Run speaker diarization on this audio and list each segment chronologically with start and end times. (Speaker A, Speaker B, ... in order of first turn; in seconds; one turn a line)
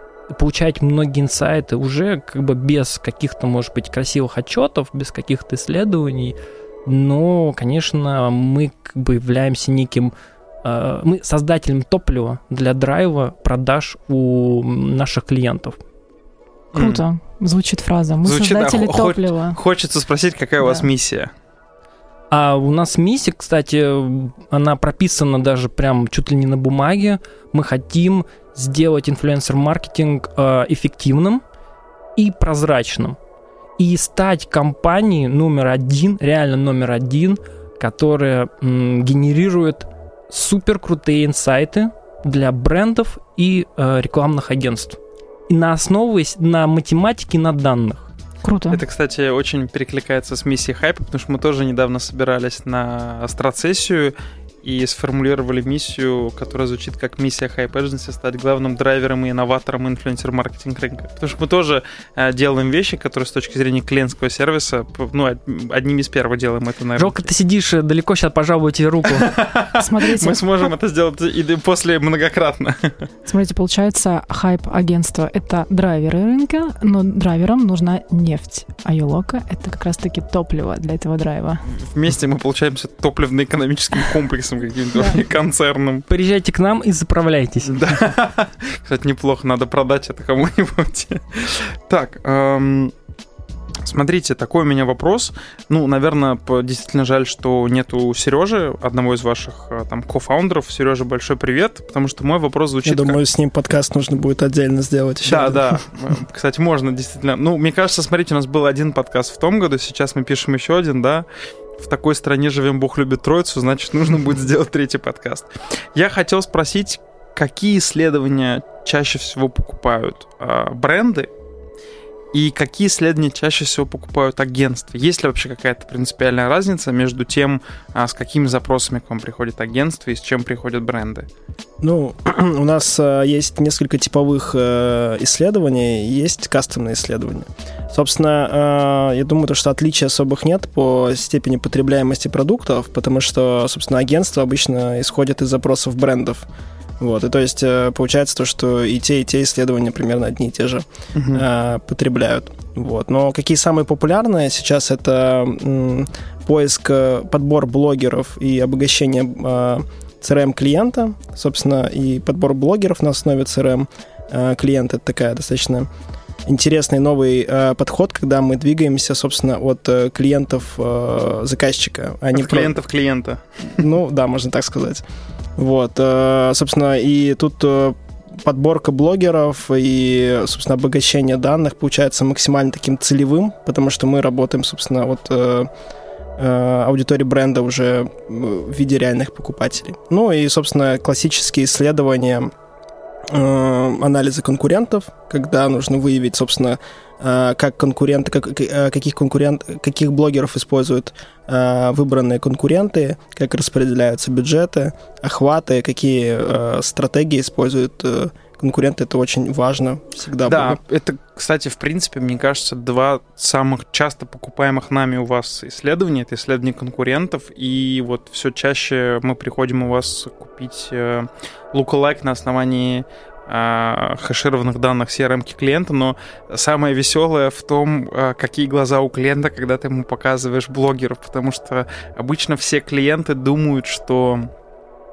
Speaker A: 0.3-10.1
Speaker A: 10.6-15.8
Speaker B: 16.7-19.6
Speaker C: 16.7-17.1
Speaker C: 18.2-21.3
Speaker B: 20.6-20.9
Speaker A: 22.3-31.4
Speaker A: 32.2-33.2
Speaker A: 33.8-48.1
Speaker B: 48.4-48.8
Speaker C: 48.7-67.3
Speaker A: 67.0-69.3
Speaker C: 69.2-73.0
Speaker B: 69.8-70.7
Speaker B: 73.3-81.7
Speaker C: 81.7-86.1
Speaker B: 85.0-85.2
Speaker A: 86.1-87.8
Speaker C: 87.7-92.9
Speaker C: 93.8-103.2
Speaker D: 102.8-105.8
Speaker C: 105.3-111.3
Speaker C: 111.8-121.3
Speaker C: 122.3-131.3
Speaker D: 131.8-146.5
Speaker D: 147.0-165.9
Speaker C: 151.2-151.4
Speaker D: 166.5-172.8
Speaker C: 172.3-173.8
Speaker D: 173.8-175.0
Speaker D: 175.6-185.7
Speaker D: 186.4-192.5
Speaker D: 193.3-210.8
Speaker C: 210.4-234.5